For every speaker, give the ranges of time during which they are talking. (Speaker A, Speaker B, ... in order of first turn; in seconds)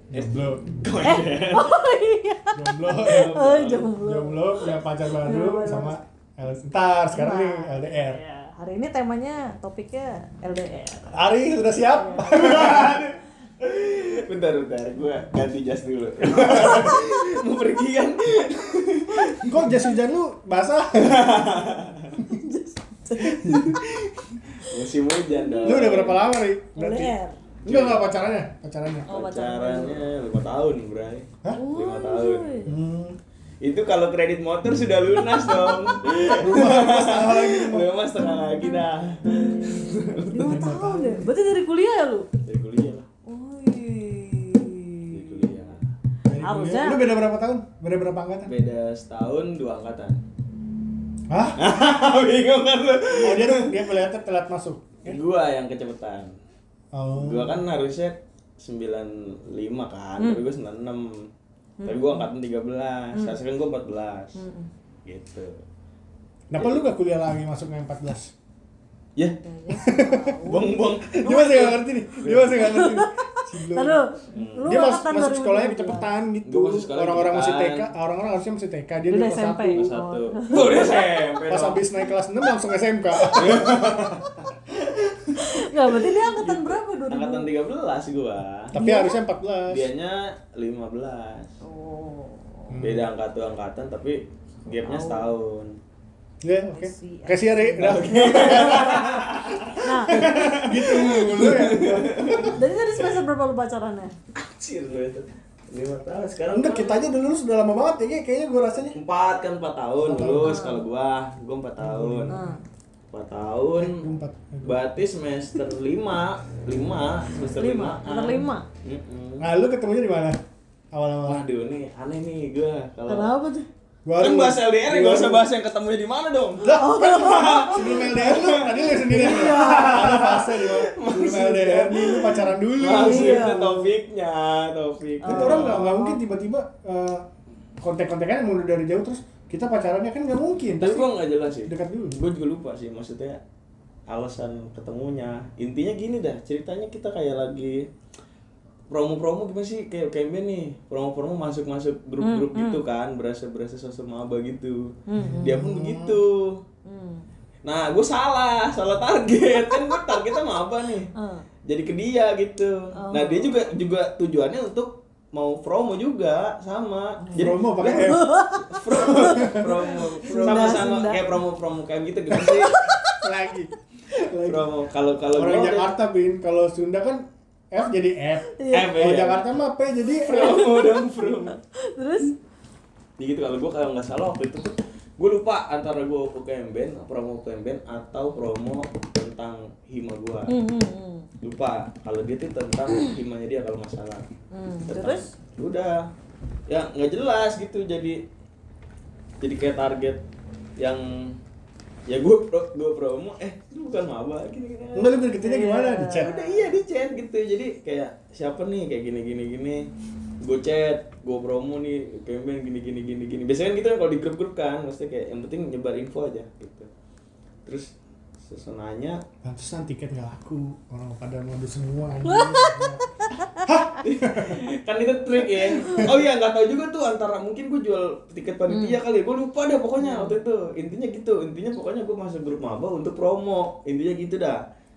Speaker A: 0.1-0.9, 2.5-3.4, 4.0-8.2, 11.1-13.0, 16.2-17.1, 19.4-21.4, 22.2-22.4, 23.2-23.8, 25.6-27.1, 27.7-29.1, 32.7-33.2, 36.4-37.9, 40.5-41.2, 46.2-48.5, 51.3-51.6, 53.1-55.2, 56.9-57.6, 66.5-68.3, 69.7-70.4, 71.2-74.0, 74.7-79.9, 81.5-84.1, 88.7-89.9, 92.7-93.1, 96.4-99.0, 99.7-102.6, 106.5-109.0, 110.0-110.6, 111.8-112.6, 113.8-114.8, 119.4-120.4, 120.9-121.4, 124.1-125.5, 126.7-133.6, 135.2-137.3, 137.8-142.2, 155.2-156.2, 167.3-168.3, 169.1-170.9, 173.2-174.7, 175.3-180.7, 204.9-206.5, 219.4-223.0, 223.6-224.6, 225.6-226.1
Speaker B: 0.1-1.8, 2.9-3.9, 12.2-19.7, 21.0-22.2, 23.2-26.2, 27.6-28.1, 29.1-32.7, 33.6-40.6, 42.5-43.1, 45.1-45.8, 48.5-50.2, 51.6-53.8, 55.0-56.3, 57.2-61.3, 61.8-64.4, 65.1-65.6, 66.6-66.8, 70.5-72.7, 74.3-74.8, 76.5-77.9, 79.7-81.8, 83.3-88.7, 89.7-91.5, 92.8-95.8, 97.8-102.7, 104.3-107.1, 108.9-112.4, 113.1-114.1, 114.6-119.5, 121.3-123.4, 124.2-135.9, 140.8-143.4, 144.1-147.9, 148.9-156.6, 157.7-161.1, 161.7-172.9, 174.5-175.9, 178.7-179.4, 180.2-181.6, 183.2-190.6, 191.4-194.3, 194.9-196.1, 196.7-198.2, 199.4-200.2, 200.8-201.4, 202.1-205.3, 206.2-209.9, 210.4-216.9, 217.7-219.2, 224.0-234.6
Speaker C: 1.0-6.0, 7.1-11.3, 11.9-12.6, 22.1-23.6, 25.3-27.4, 29.1-30.0, 31.5-32.8, 35.2-36.0, 40.3-42.3, 43.3-45.5, 46.4-47.0, 61.8-62.3, 63.1-63.4, 64.4-64.7, 69.4-71.8, 72.4-76.1, 79.1-81.1, 83.2-84.2, 85.4-87.5, 88.8-89.2, 91.6-92.8, 94.7-95.3, 96.7-101.2, 102.5-104.2, 110.4-110.8, 112.3-112.6, 117.6-118.7, 123.1-123.7, 126.6-128.4, 128.9-130.1, 132.8-133.9, 135.2-136.2, 152.2-152.8, 155.1-155.6, 156.8-157.3, 161.2-161.5, 163.0-163.7, 167.2-171.4, 172.4-173.3, 178.5-179.0, 180.2-182.3, 190.5-191.3, 194.5-195.3, 205.4-206.8, 222.2-223.7, 228.7-229.0, 230.0-230.4